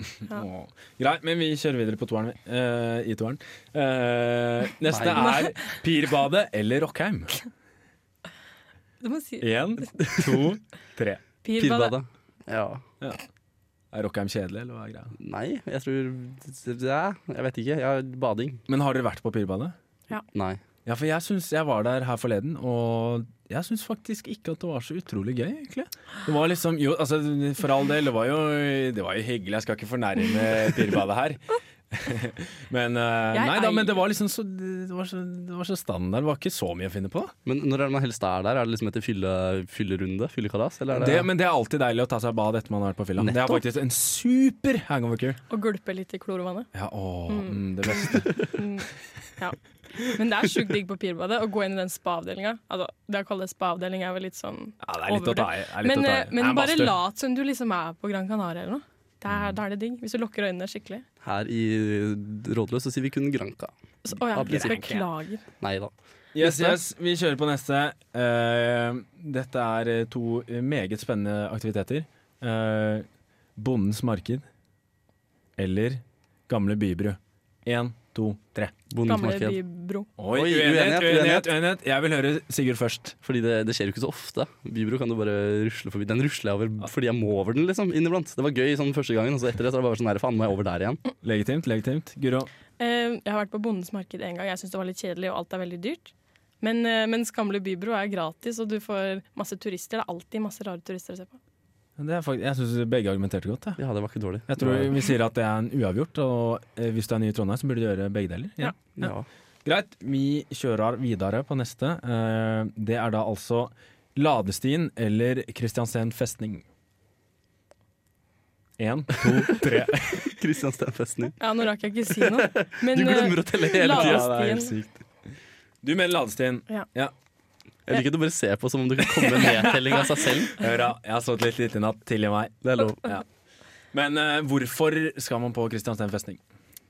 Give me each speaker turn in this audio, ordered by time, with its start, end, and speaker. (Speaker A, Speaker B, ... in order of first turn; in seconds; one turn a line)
Speaker A: 0.2-7.4
Speaker B: 4.9-5.3
Speaker C: 5.1-5.6
Speaker C: 9.0-9.9
Speaker A: 9.4-11.2
Speaker C: 11.4-11.9
Speaker B: 11.6-12.8
Speaker A: 13.9-15.1
Speaker B: 15.2-18.6
Speaker A: 18.7-19.8
Speaker B: 20.3-20.6
Speaker A: 20.9-37.3
Speaker C: 33.3-34.0
Speaker B: 37.5-41.3
Speaker A: 40.9-45.4
Speaker B: 43.2-43.6
Speaker C: 45.5-46.7
Speaker A: 46.7-48.5
Speaker C: 47.3-48.9
Speaker C: 49.4-61.0
Speaker A: 54.8-57.0
Speaker B: 61.2-63.7
Speaker C: 64.0-65.4
Speaker B: 64.3-64.9
Speaker A: 64.4-65.0
Speaker B: 65.6-66.8
Speaker A: 66.3-73.1
Speaker A: 73.6-74.5
Speaker A: 75.6-78.7
Speaker B: 78.9-79.6
Speaker C: 79.1-80.1
Speaker A: 80.2-83.2
Speaker B: 80.3-81.5
Speaker B: 83.2-91.0
Speaker A: 91.2-92.5
Speaker C: 92.8-101.4
Speaker A: 102.0-103.8
Speaker B: 103.8-105.0
Speaker A: 104.5-109.1
Speaker B: 109.0-109.3
Speaker A: 109.7-116.6
Speaker A: 118.8-120.3
Speaker B: 119.5-121.4
Speaker C: 121.4-124.8
Speaker B: 122.2-124.5
Speaker A: 123.9-124.9
Speaker A: 125.8-127.1
Speaker B: 127.9-130.6
Speaker A: 129.4-129.7
Speaker A: 130.6-133.2
Speaker B: 132.6-133.0
Speaker A: 133.9-136.4